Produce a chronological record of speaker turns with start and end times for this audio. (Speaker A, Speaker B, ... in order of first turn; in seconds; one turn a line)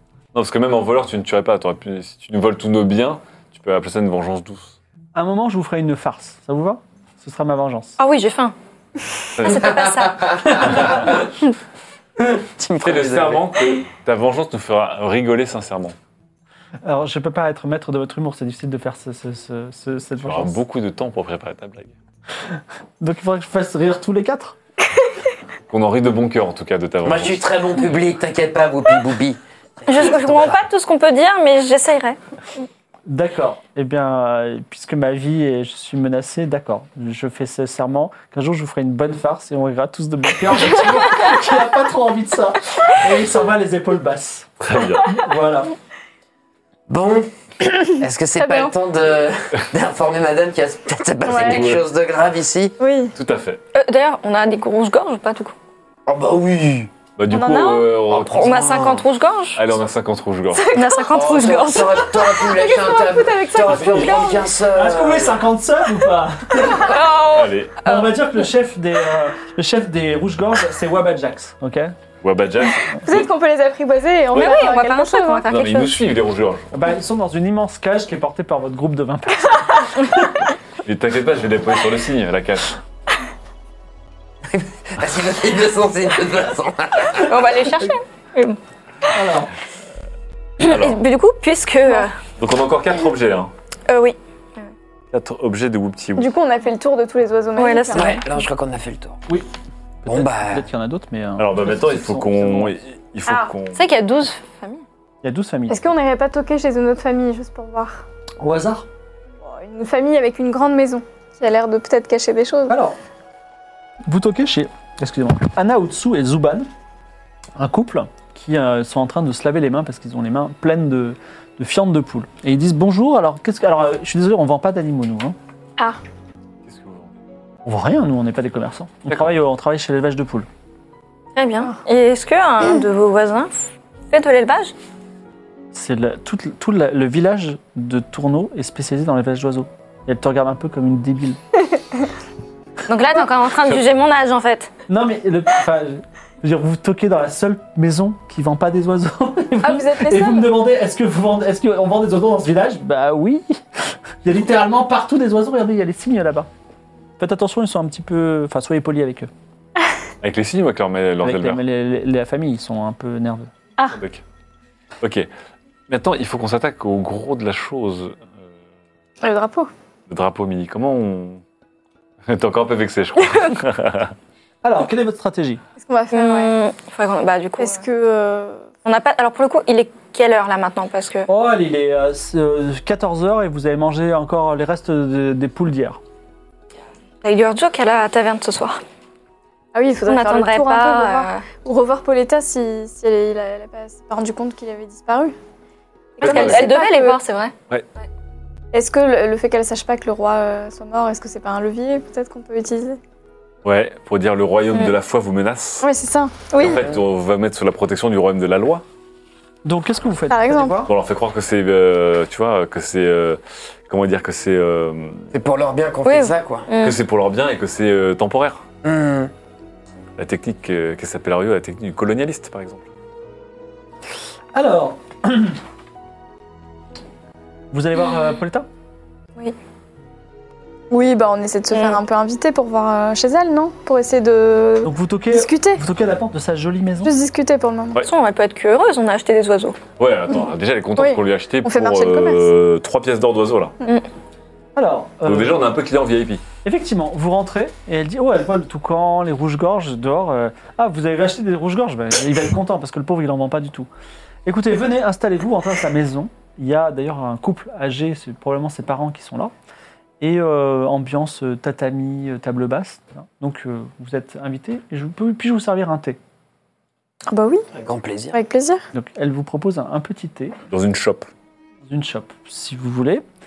Speaker A: 0.3-4.8
Speaker B: 5.2-8.0
Speaker C: 8.0-8.6
Speaker A: 9.4-9.8
Speaker C: 9.4-10.8
Speaker D: 9.8-10.6
Speaker A: 10.6-11.2
Speaker D: 12.3-13.5
Speaker A: 12.8-15.9
Speaker B: 16.9-20.6
Speaker A: 20.2-21.9
Speaker B: 23.0-24.6
Speaker A: 25.7-27.5
Speaker D: 27.0-30.6
Speaker C: 29.9-32.2
Speaker B: 33.1-44.5
Speaker A: 44.6-45.2
Speaker B: 45.0-45.7
Speaker D: 46.9-52.8
Speaker E: 48.4-48.7
Speaker E: 51.2-51.7
Speaker A: 51.3-51.9
Speaker E: 52.8-53.1
Speaker A: 53.1-53.6
Speaker C: 53.7-55.5
Speaker D: 56.1-56.9
Speaker A: 57.2-59.0
Speaker E: 57.3-57.9
Speaker C: 57.4-59.6
Speaker D: 58.1-59.0
Speaker A: 59.5-60.9
Speaker E: 60.5-61.0
Speaker C: 60.7-62.4
Speaker D: 61.1-65.4
Speaker E: 62.2-64.5
Speaker A: 63.6-64.3
Speaker B: 64.7-66.9
Speaker C: 66.6-68.1
Speaker A: 67.2-67.9
Speaker B: 67.8-71.9
Speaker A: 72.2-73.3
Speaker E: 73.0-75.5
Speaker C: 74.3-76.1
Speaker A: 75.5-76.8
Speaker B: 76.7-80.1
Speaker A: 80.8-82.7
Speaker D: 84.5-87.3
Speaker C: 87.1-88.6
Speaker B: 89.1-89.5
Speaker C: 90.6-92.2
Speaker A: 90.6-91.0
Speaker A: 92.4-93.5
Speaker C: 93.9-94.7
Speaker A: 95.1-96.3
Speaker E: 96.2-98.2
Speaker C: 97.6-98.2
Speaker D: 98.0-99.2
Speaker B: 100.0-102.7
Speaker D: 100.1-100.7
Speaker A: 101.4-103.8
Speaker C: 103.7-104.8
Speaker B: 105.2-105.9
Speaker E: 105.7-108.0
Speaker B: 108.4-108.9
Speaker E: 109.4-112.8
Speaker B: 112.7-113.0
Speaker B: 114.1-116.7
Speaker B: 117.6-125.4
Speaker A: 126.7-127.1
Speaker B: 127.7-130.5
Speaker C: 131.3-134.8
Speaker B: 135.7-141.4
Speaker C: 142.9-144.7
Speaker B: 144.9-153.6
Speaker E: 149.6-150.5
Speaker B: 154.2-156.5
Speaker B: 157.2-159.3
Speaker A: 160.2-161.6
Speaker B: 161.2-163.5
Speaker A: 163.9-164.2
Speaker A: 165.0-165.3
Speaker A: 165.9-168.3
Speaker E: 169.2-169.7
Speaker A: 170.1-171.4
Speaker A: 172.3-174.2
Speaker B: 174.6-175.6
Speaker E: 175.8-176.5
Speaker C: 176.1-177.8
Speaker E: 177.6-178.7
Speaker C: 178.8-181.3
Speaker B: 181.3-186.0
Speaker C: 187.2-188.8
Speaker E: 189.7-195.3
Speaker C: 190.0-191.4
Speaker E: 196.2-197.2
Speaker C: 196.2-198.1
Speaker A: 196.2-196.7
Speaker E: 198.7-203.0
Speaker A: 203.6-205.9
Speaker E: 205.8-206.8
Speaker A: 206.6-208.8
Speaker B: 209.7-210.9
Speaker E: 210.3-210.8
Speaker A: 210.9-215.3
Speaker D: 215.3-216.7
Speaker C: 216.1-217.0
Speaker A: 216.8-218.6
Speaker D: 218.8-219.3
Speaker A: 220.2-222.9
Speaker B: 224.5-225.6
Speaker B: 227.7-228.7
Speaker E: 230.9-235.8
Speaker C: 231.7-232.0
Speaker B: 234.8-237.1
Speaker E: 237.0-238.0
Speaker C: 238.0-239.8
Speaker A: 240.0-243.7
Speaker E: 241.0-242.5
Speaker B: 244.8-245.7
Speaker A: 245.2-246.4
Speaker B: 246.6-253.9
Speaker B: 254.5-259.5
Speaker B: 260.2-266.2
Speaker E: 267.3-267.7
Speaker D: 267.7-268.4
Speaker E: 268.3-268.8
Speaker B: 268.9-270.6
Speaker A: 270.7-271.3
Speaker B: 271.9-273.2